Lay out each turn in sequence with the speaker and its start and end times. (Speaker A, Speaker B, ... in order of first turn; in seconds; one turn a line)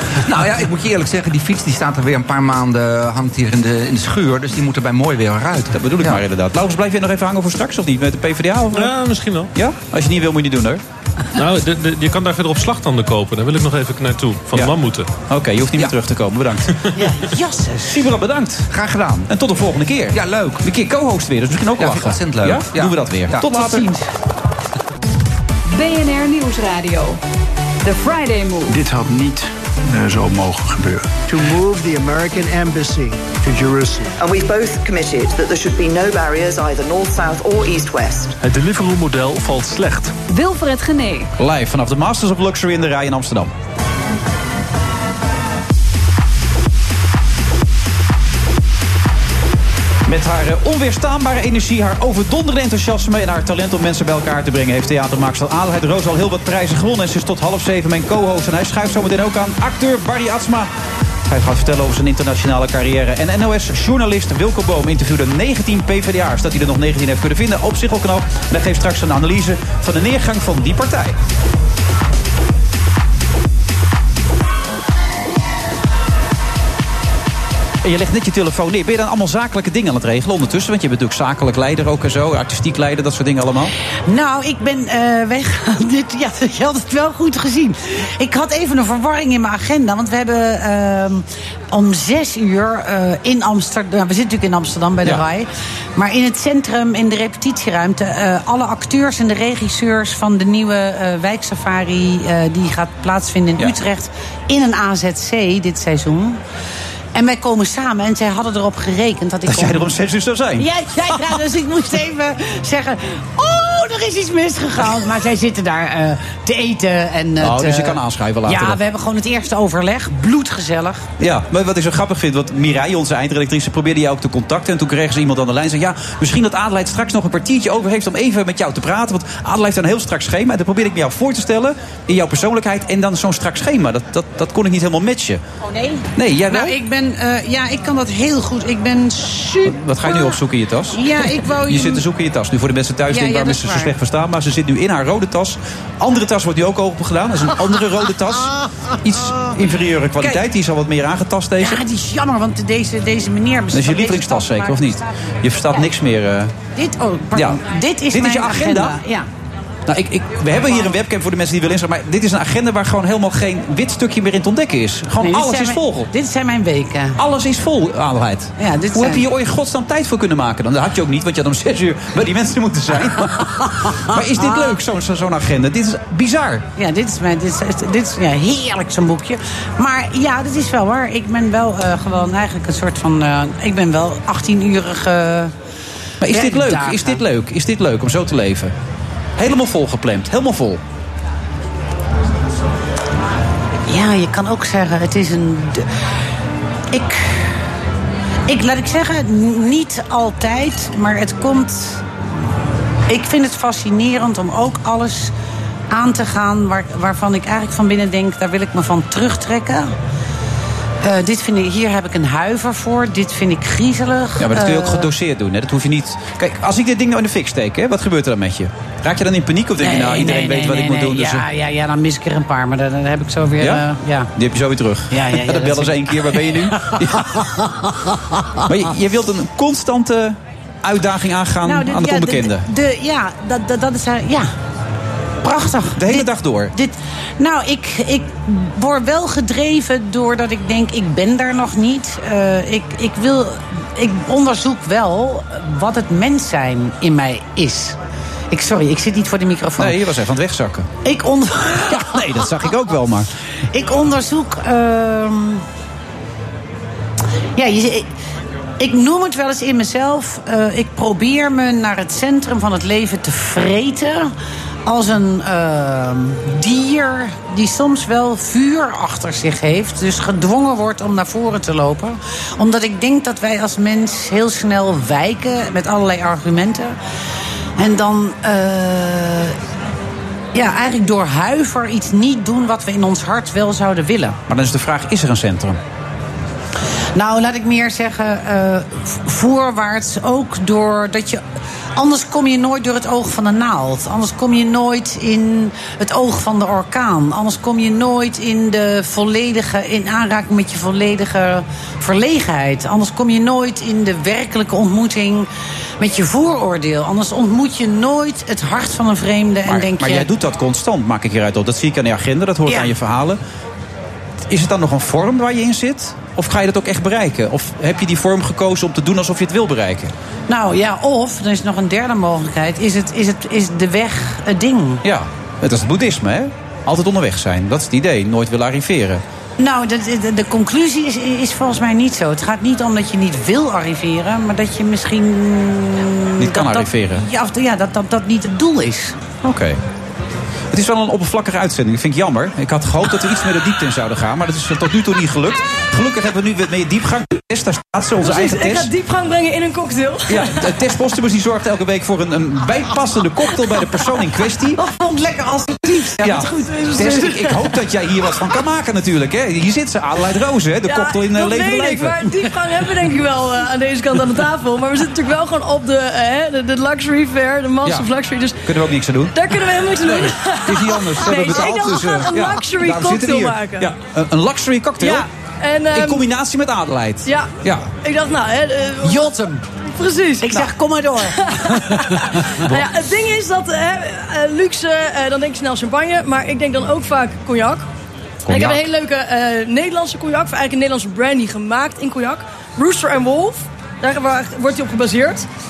Speaker A: 0.2-6.2
Speaker B: 5.8-8.9
Speaker C: 8.7-9.5
Speaker B: 9.6-10.8
Speaker C: 11.4-15.1
Speaker B: 15.3-16.7
Speaker D: 16.9-18.0
Speaker B: 17.9-18.7
Speaker A: 18.7-19.3
Speaker B: 19.3-23.8
Speaker A: 20.1-20.7
Speaker A: 21.8-23.8
Speaker D: 23.4-24.1
Speaker E: 25.7-27.2
Speaker E: 27.8-28.8
Speaker F: 28.7-34.1
Speaker G: 34.2-38.4
Speaker C: 38.4-40.1
Speaker E: 40.3-41.3
Speaker B: 41.4-43.5
Speaker B: 50.1-60.7
Speaker B: 61.3-71.2
Speaker B: 77.8-83.7
Speaker D: 84.1-106.4
Speaker D: 107.2-109.9
Speaker B: 109.5-111.4
Speaker D: 110.6-121.0
Speaker B: 117.4-118.8
Speaker B: 121.2-135.4
Speaker D: 135.6-140.4
Speaker B: 136.2-136.8
Speaker B: 139.7-151.8
Speaker D: 140.9-142.0
Speaker D: 143.1-143.9
Speaker D: 151.6-155.1
Speaker B: 153.7-156.5
Speaker D: 156.8-159.3
Speaker B: 158.1-159.0
Speaker B: 159.9-166.1
Speaker D: 160.7-160.9
Speaker D: 165.2-167.2
Speaker B: 167.2-176.7
Speaker D: 168.6-169.2
Speaker D: 173.8-174.7
Speaker D: 176.8-185.5
Speaker B: 186.2-188.7
Speaker D: 186.3-187.2
Speaker B: 189.4-190.8
Speaker D: 193.9-195.9
Speaker D: 196.9-197.5
Speaker D: 198.5-202.1
Speaker D: 203.1-205.3
Speaker D: 205.9-209.9
Speaker D: 211.0-215.1
Speaker B: 214.4-221.5
Speaker D: 219.8-224.3
Speaker B: 224.4-227.4
Speaker D: 225.1-228.6
Speaker B: 228.7-232.7
Speaker D: 231.7-234.5
Speaker D: 235.4-248.0
Speaker B: 236.0-236.7
Speaker D: 248.5-250.0
Speaker B: 249.8-250.9
Speaker D: 251.0-252.2
Speaker B: 251.9-253.3
Speaker D: 253.7-255.6
Speaker D: 257.6-258.1
Speaker D: 258.8-264.3
Speaker D: 264.9-277.0
Speaker D: 277.8-279.6
Speaker D: 280.5-284.4
Speaker B: 284.5-285.8
Speaker D: 287.2-291.4
Speaker D: 292.0-305.5
Speaker D: 306.0-310.3
Speaker B: 309.7-313.4
Speaker D: 312.7-312.9
Speaker B: 314.5-320.1
Speaker D: 320.5-325.0
Speaker B: 325.0-329.2
Speaker D: 329.6-339.2
Speaker B: 336.4-337.2
Speaker B: 339.4-339.8
Speaker B: 340.7-348.9
Speaker H: 348.2-350.6
Speaker B: 350.3-354.8
Speaker D: 354.8-357.1
Speaker B: 356.2-362.3
Speaker H: 356.7-357.7
Speaker H: 360.9-368.6
Speaker B: 368.6-375.3
Speaker H: 369.3-373.9
Speaker D: 371.4-371.8
Speaker H: 375.0-376.3
Speaker B: 375.9-377.9
Speaker H: 377.2-379.3
Speaker D: 379.0-379.6
Speaker H: 380.0-380.7
Speaker D: 380.4-381.9
Speaker H: 381.2-387.9
Speaker B: 388.5-388.8
Speaker H: 388.5-395.4